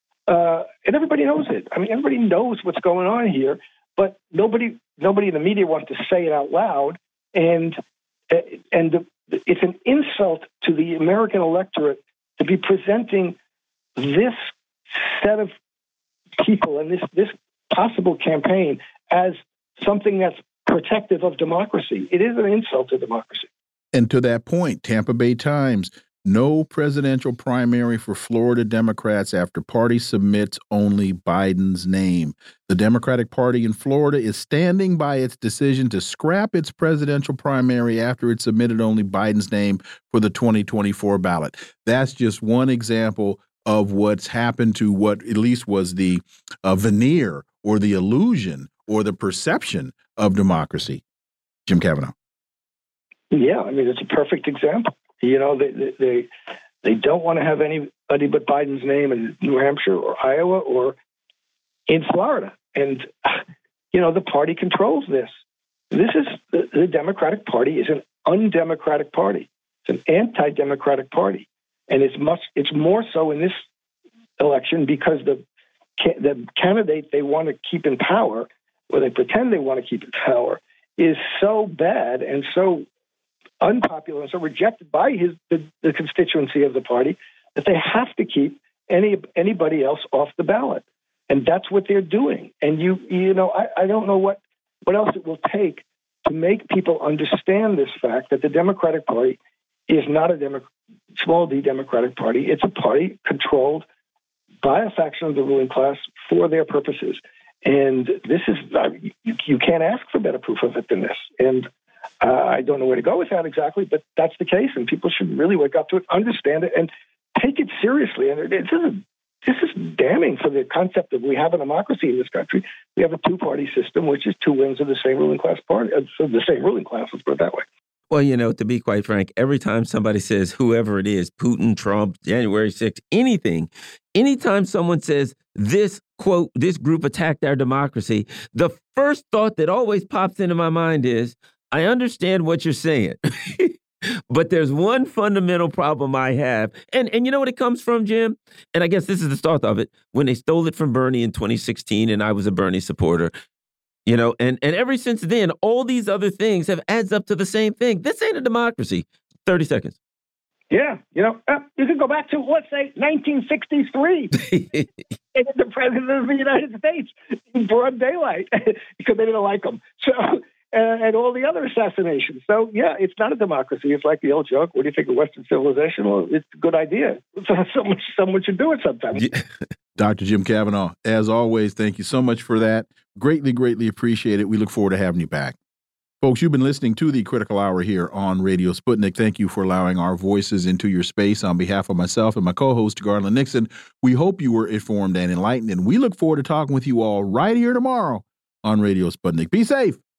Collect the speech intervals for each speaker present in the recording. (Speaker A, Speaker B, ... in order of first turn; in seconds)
Speaker A: 0.3-7.8, 8.3-13.4, 14.0-15.5, 16.4-23.5, 53.3-56.3, 56.8-61.0, 61.9-65.3, 65.9-73.6, 74.4-75.4, 76.0-82.8, 83.6-99.4, 99.9-103.8, 104.6-111.7, 112.2-127.7, 160.7-164.3, 165.3-179.2
Speaker B: 23.9-51.0, 51.7-52.1, 179.9-185.6, 186.2-200.0
Speaker C: 128.1-143.7, 144.3-153.3, 154.1-160.0, 164.3-165.0, 179.2-179.4